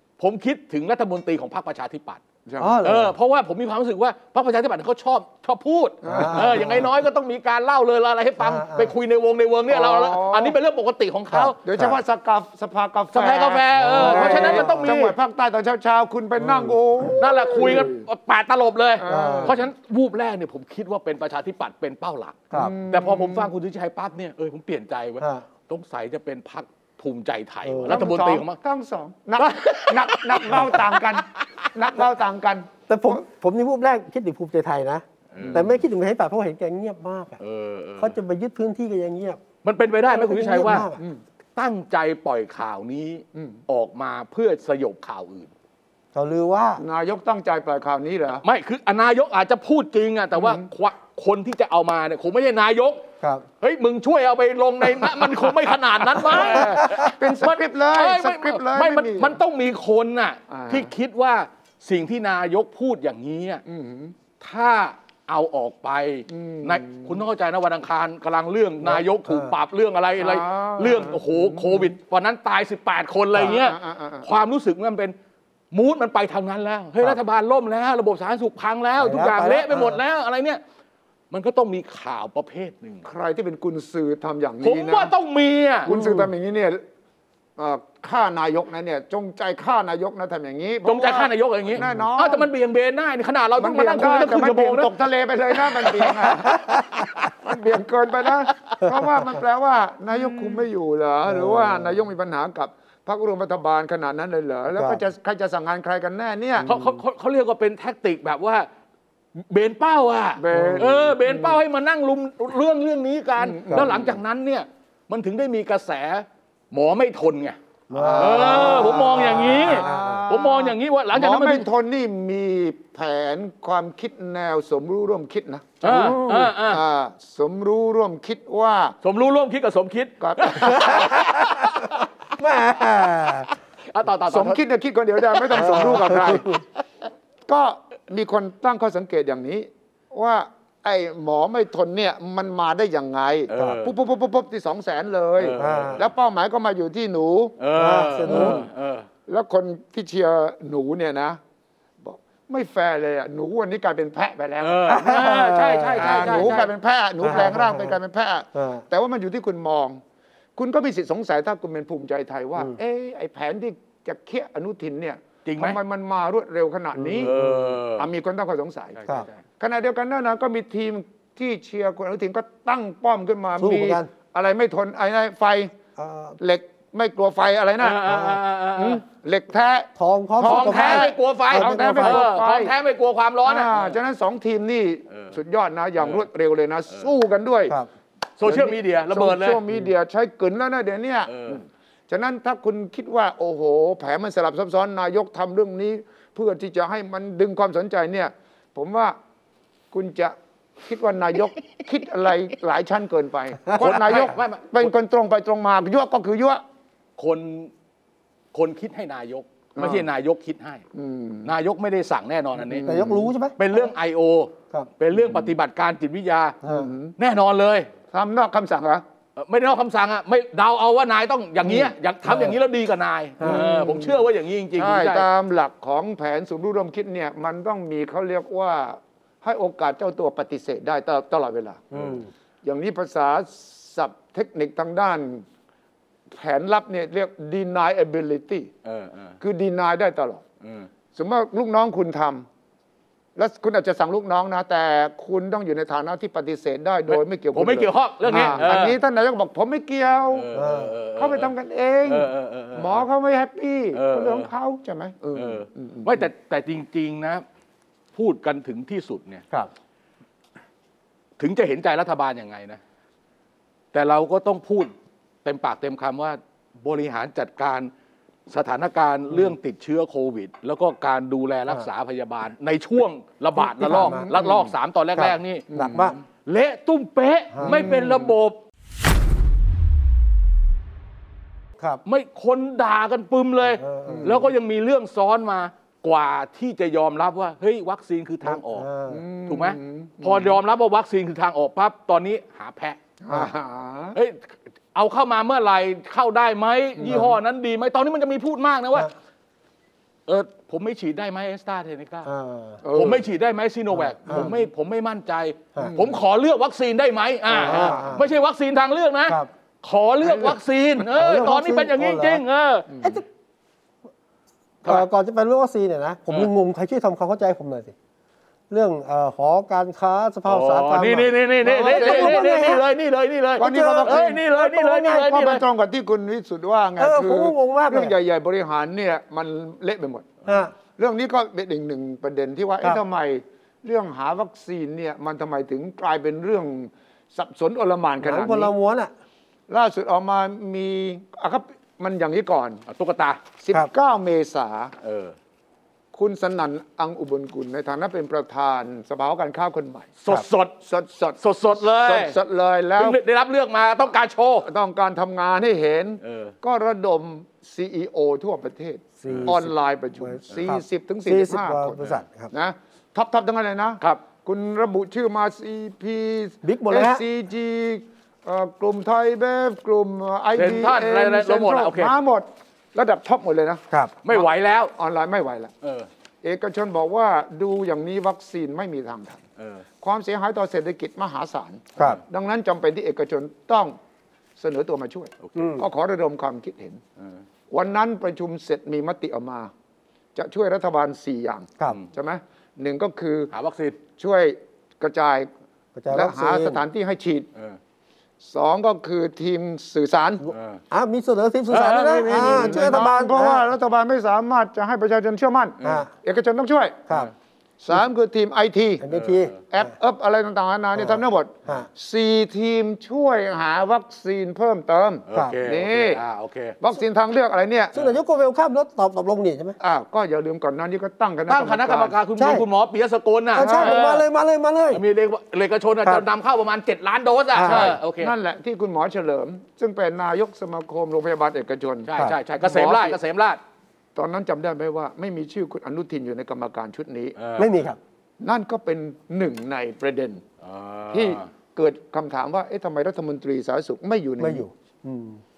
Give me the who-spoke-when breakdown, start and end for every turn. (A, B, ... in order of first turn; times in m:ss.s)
0:00.2-0:02.2 A
0:02.5-0:02.8 B
0:02.6-0:03.2 C
0:02.8-0:11.6 A
0:06.0-0:06.9 B
0:06.1-0:06.9 C
0:08.4-0:08.9 C
0:09.7-0:10.6 B
0:11.3-0:12.0 C
0:11.6-0:18.0 B
0:13.1-0:15.2 A
0:13.8-0:15.0 C
0:16.4-0:17.1 C
0:17.2-0:28.6 A
0:19.0-0:19.6 B
0:19.1-0:19.6 C
0:22.5-0:23.5 B
0:25.2-0:25.5 C
0:27.6-0:28.1 C
0:27.9-0:33.2 B
0:29.4-0:31.7 A
0:32.9-0:37.4 C
0:35.3-0:35.8 A
0:35.4-0:35.7 B
0:37.4-0:38.2 A
0:38.0-0:39.4 C
0:39.6-0:40.9 A
0:40.1-0:41.0 C
0:41.6-0:45.5 A
0:46.1-0:46.8 C
0:46.8-0:48.4 B
0:48.4-0:53.1 A
0:50.4-0:50.6 B
0:53.2-0:53.5 C
0:53.6-1:03.6 A
0:56.2-0:59.4 B
0:56.6-0:56.9 C
1:00.5-1:00.9 B
1:03.7-1:04.1 B
1:04.4-1:15.2 A
1:06.3-1:07.2 B
1:08.8-1:09.5 C
1:10.2-1:11.9 B
1:13.4-1:14.3 B
1:15.7-1:20.6 A
1:19.0-1:20.0 C
1:21.3-1:23.1 A
1:23.0-1:25.1 B
1:24.6-1:25.9 A
1:25.9-1:26.8 B
1:25.9-1:26.3 C
1:27.6-1:32.5 B
1:30.8-1:34.9 A
1:31.8-1:32.0 C
1:33.6-1:46.7 B
1:35.8-1:37.3 A
1:36.4-1:36.8 C
1:38.9-1:39.2 C
1:41.3-1:42.0 C
1:44.7-1:45.0 C
1:46.6-1:47.0 C
1:46.6-1:48.7 A
1:49.4-1:57.6 A
1:50.4-1:51.6 B
1:50.5-1:51.0 C
1:53.4-1:54.2 B
1:57.9-2:00.2 C
1:57.9-2:05.8 B
1:58.2-2:01.7 A
2:05.8-2:06.8 A
2:05.8-2:06.5 C
2:06.6-2:09.0 B
2:09.0-2:12.1 A
2:10.2-2:11.1 B
2:10.7-2:13.5 C
2:13.9-2:14.6 A
2:14.3-2:16.5 B
2:15.3-2:16.4 A
2:15.5-2:16.6 C
2:17.5-2:27.6 B
2:23.5-2:23.9 A
2:25.4-2:26.0 A
2:25.6-2:26.0 C
2:27.6-2:29.1 A
2:27.7-2:28.6 C
2:28.2-2:28.6 B
2:29.3-2:31.4 B
2:32.0-2:34.9 B
2:34.6-2:36.7 A
2:34.9-2:36.6 C
2:36.0-2:40.0 B
2:37.2-2:38.0 C
2:38.6-2:38.8 C
2:40.6-2:47.4 B
2:45.4-2:45.8 A
2:47.0-2:47.8 C
2:47.2-2:48.1 A
2:48.0-2:49.0 B
2:49.0-2:49.4 A
2:49.6-2:55.8 B
2:53.6-2:54.1 C
2:56.0-2:56.4 C
2:56.4-2:58.2 B
2:57.8-2:59.0 A
2:58.1-2:58.4 C
2:58.8-3:02.7 B
3:00.0-3:02.3 C
3:00.4-3:04.0 A
3:03.4-3:07.8 B
3:05.1-3:05.4 A
3:08.4-3:09.6 A
3:08.4-3:19.2 B
3:11.3-3:11.6 A
3:19.9-3:26.6 B
3:23.8-3:24.9 A
3:27.2-3:27.7 A
3:28.5-3:30.8 A
3:29.8-3:30.1 B
3:30.9-3:31.5 B
3:31.4-3:32.9 A
3:32.6-3:33.3 B
3:32.8-3:33.9 C
3:33.6-3:36.6 A
3:36.6-3:36.9 C
3:36.7-3:37.1 B
3:37.2-3:37.9 A
3:38.1-3:39.0 B
3:39.4-3:45.3 A
3:42.3-3:42.6 C
3:43.4-3:43.7 C
3:43.4-3:51.9 B
3:51.9-3:52.3 C
3:51.9-3:52.2 A
3:52.6-3:55.4 B
3:56.3-3:58.7 B
3:58.8-3:59.4 A
3:59.4-4:00.4 B
4:00.6-4:00.9 A
4:01.2-4:02.5 B
4:03.4-4:10.4 B
4:07.1-4:09.0 A
4:08.3-4:08.7 C
4:10.3-4:11.5 A
4:10.5-4:11.0 C
4:11.2-4:16.2 B
4:12.1-4:13.0 A
4:13.9-4:14.5 A
4:15.3-4:17.4 A
4:18.2-4:19.5 A
4:21.4-4:22.8 A
4:23.9-4:24.9 A
4:25.4-4:27.9 A
4:28.5-4:35.6 A
4:33.6-4:34.3 C
4:33.9-4:34.7 B
4:35.2-4:36.2 C
4:35.7-4:36.2 B
4:36.4-4:38.6 A
4:37.5-4:37.9 C
4:37.6-4:38.3 B
4:42.0-4:48.9 A
4:43.7-4:44.4 C
4:44.1-4:44.4 B
4:48.4-4:49.2 C
4:49.1-4:50.6 B
4:49.5-4:53.0 A
4:53.2-4:54.2 B
4:54.1-4:59.1 A
4:57.0-4:57.3 B
5:00.3-5:02.3 A
5:02.2-5:02.8 C
5:02.8-5:03.3 B
5:02.9-5:12.9 A
5:04.0-5:04.5 C
5:04.3-5:04.6 B
5:05.8-5:06.2 B
5:07.5-5:08.2 B
5:07.6-5:08.2 C
5:10.2-5:10.6 B
5:11.1-5:12.4 C
5:12.9-5:13.2 B
5:14.8-5:18.0 C
5:18.7-5:22.8 C
5:20.5-5:25.6 A
5:21.8-5:22.5 B
5:23.6-5:24.4 B
5:23.6-5:25.4 C
5:25.1-5:38.7 B
5:27.0-5:28.2 C
5:30.5-5:30.7 C
5:38.2-5:39.1 C
5:39.7-5:42.8 B
5:42.9-5:43.4 A
5:43.6-5:44.9 B
5:45.0-5:45.4 A
5:46.1-5:50.2 B
5:50.2-5:50.7 A
5:50.8-5:53.2 B
5:51.4-5:52.4 A
5:53.0-5:54.7 A
5:54.7-6:15.7 B
5:56.2-5:56.5 A
5:59.2-6:02.5 C
5:59.3-5:59.5 A
6:00.5-6:00.8 A
6:06.6-6:07.2 C
6:10.6-6:12.1 A
6:14.2-6:14.9 A
6:15.8-6:16.1 A
6:16.4-6:19.4 B
6:19.6-6:19.8 A
6:20.0-6:24.0 B
6:24.6-6:27.0 B
6:25.4-6:25.8 A
6:25.6-6:25.8 C
6:27.7-6:29.7 B
6:30.4-6:33.5 B
6:33.5-6:34.0 A
6:34.2-6:35.5 B
6:36.0-6:36.8 C
6:36.1-6:37.5 B
6:38.4-6:40.4 B
6:40.5-6:40.8 A
6:40.9-6:43.7 C
6:41.7-6:43.0 A
6:42.2-6:47.1 B
6:45.8-6:46.1 A
6:45.8-6:46.1 C
6:47.8-6:49.0 B
6:49.0-6:49.9 C
6:49.1-6:49.6 A
6:49.7-6:56.2 B
6:51.0-6:51.9 C
6:55.3-6:56.8 A
6:56.8-6:57.9 B
6:57.9-6:59.8 C
6:59.8-7:02.2 B
7:01.5-7:04.2 A
7:02.4-7:02.7 C
7:03.5-7:05.0 C
7:03.6-7:04.0 B
7:04.9-7:08.3 A
7:07.5-7:08.0 C
7:07.6-7:12.1 B
7:12.0-7:13.6 A
7:12.6-7:13.2 B
7:14.2-7:17.4 B
7:17.4-7:17.8 A
7:17.6-7:18.0 C
7:18.4-7:20.4 B
7:20.6-7:21.5 A
7:21.1-7:24.6 B
7:24.4-7:25.4 C